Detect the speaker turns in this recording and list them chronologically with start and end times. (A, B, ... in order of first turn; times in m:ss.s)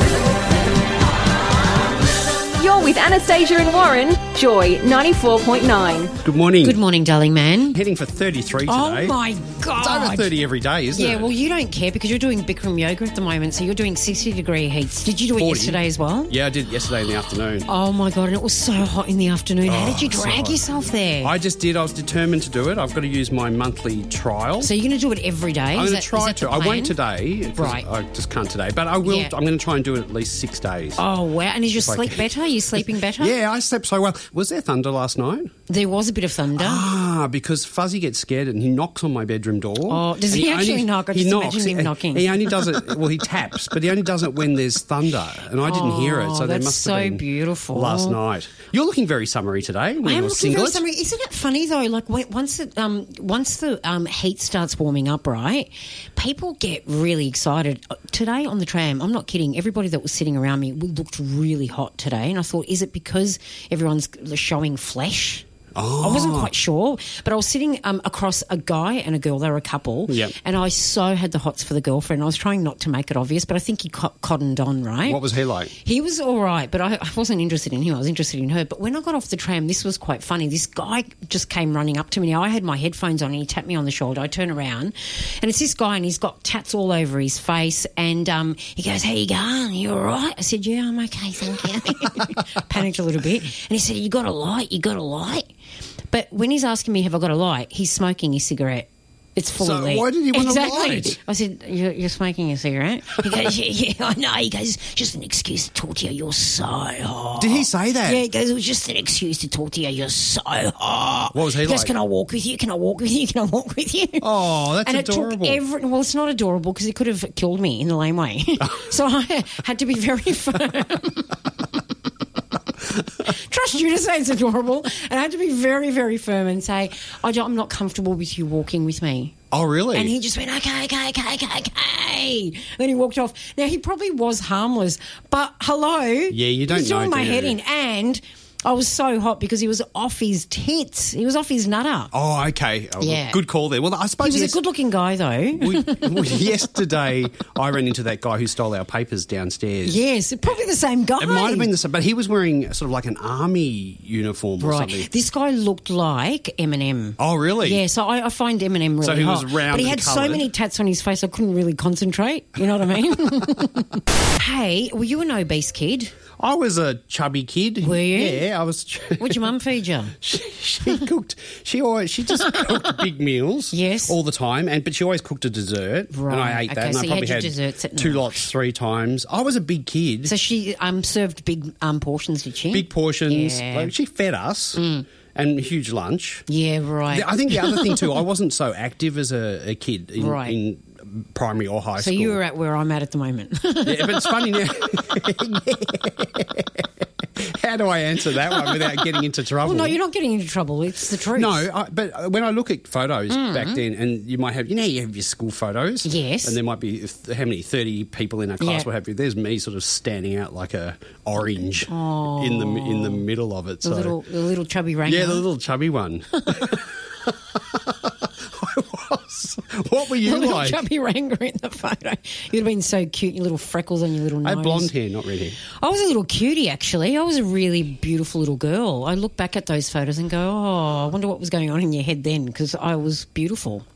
0:02.5-0:06.1 A
0:06.2-0:06.8 B
0:06.6-0:07.8 C
0:07.7-0:09.2 B
0:08.6-0:10.3 C
0:09.7-0:11.3 B
0:10.9-0:16.3 C
0:15.4-0:17.7 B
0:17.6-0:21.3 C
0:19.6-0:20.6 B
0:21.2-0:24.7 B
0:24.6-0:27.0 C
0:25.7-0:31.0 B
0:27.6-0:27.8 C
0:29.0-0:29.3 C
0:31.0-0:33.4 C
0:31.7-0:35.5 B
0:35.7-0:36.9 C
0:36.6-0:50.8 B
0:39.9-0:42.8 C
0:45.6-0:48.2 C
0:50.0-1:05.4 C
1:05.7-1:06.5 B
1:06.0-1:35.5 C
1:10.1-1:10.3 B
1:15.0-1:15.7 B
1:36.1-1:54.3 C
1:39.6-1:41.2 B
1:47.4-1:48.2 B
1:51.3-1:51.9 B
1:54.2-1:55.6 B
1:54.8-2:01.5 C
2:03.2-2:09.3 C
2:09.5-2:10.1 B
2:09.9-2:22.1 C
2:16.3-2:17.6 B
2:22.1-2:24.6 B
2:23.0-2:23.4 C
2:24.2-2:26.4 C
2:25.6-2:30.0 B
2:29.8-2:31.7 C
2:31.2-2:35.1 B
2:34.6-2:46.1 C
2:37.2-2:37.8 B
2:39.0-2:40.5 B
2:46.4-2:49.5 B
2:47.8-2:48.4 C
2:49.2-2:50.1 C
2:50.2-3:00.3 B
2:53.7-2:54.2 C
2:56.1-2:58.5 C
3:00.2-3:03.9 C
3:02.7-3:04.8 B
3:04.7-3:05.1 C
3:05.3-3:06.4 B
3:06.5-3:08.2 C
3:07.1-3:12.4 B
3:10.2-3:10.6 C
3:12.0-3:14.5 C
3:13.8-3:20.0 B
3:19.6-3:21.7 C
3:21.3-3:34.2 B
3:23.3-3:23.8 C
3:26.0-3:26.6 C
3:28.6-3:28.9 C
3:31.9-3:33.2 C
3:33.8-3:35.4 C
3:35.0-3:40.8 B
3:40.2-3:44.9 C
3:44.4-3:45.6 B
3:45.7-3:53.8 C